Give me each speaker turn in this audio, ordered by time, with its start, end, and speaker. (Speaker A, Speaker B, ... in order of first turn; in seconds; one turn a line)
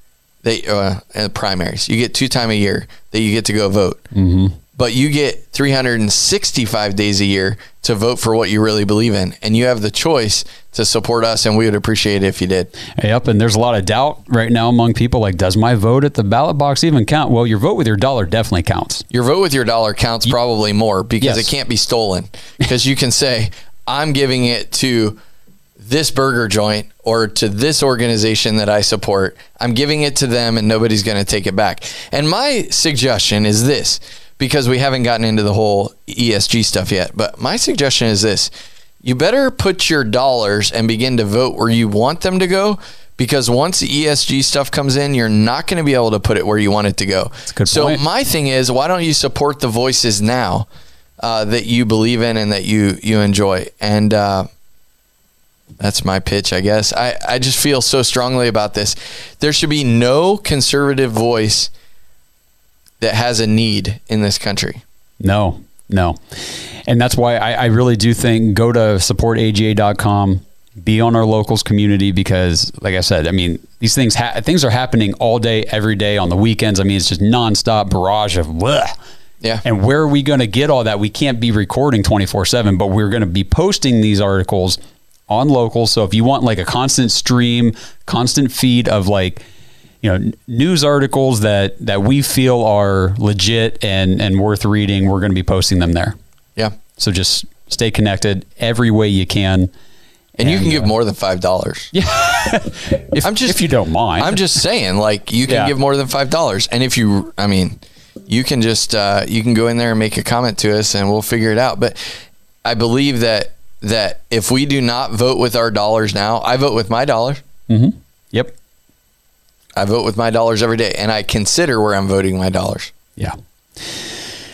Speaker A: 0.4-4.0
Speaker B: 4.1-4.5
Speaker A: 4.8-12.7
Speaker B: 12.9-19.1
Speaker A: 19.1-25.2
Speaker B: 21.2-21.5
Speaker A: 25.8-38.5
Speaker A: 39.0-50.7
Speaker B: 47.5-48.0
Speaker A: 51.2-54.5
Speaker A: 55.8-61.7
Speaker A: 63.0-64.8
Speaker B: 65.2-79.0
Speaker B: 79.6-89.4
Speaker B: 90.0-96.2
Speaker B: 97.0-99.7
Speaker B: 100.4-100.9
Speaker A: 100.4-101.9
Speaker B: 101.9-104.4
Speaker A: 103.2-112.0
Speaker B: 105.5-105.7
Speaker A: 112.7-117.4
Speaker B: 117.7-118.5
Speaker A: 119.8-122.9
Speaker B: 123.2-124.1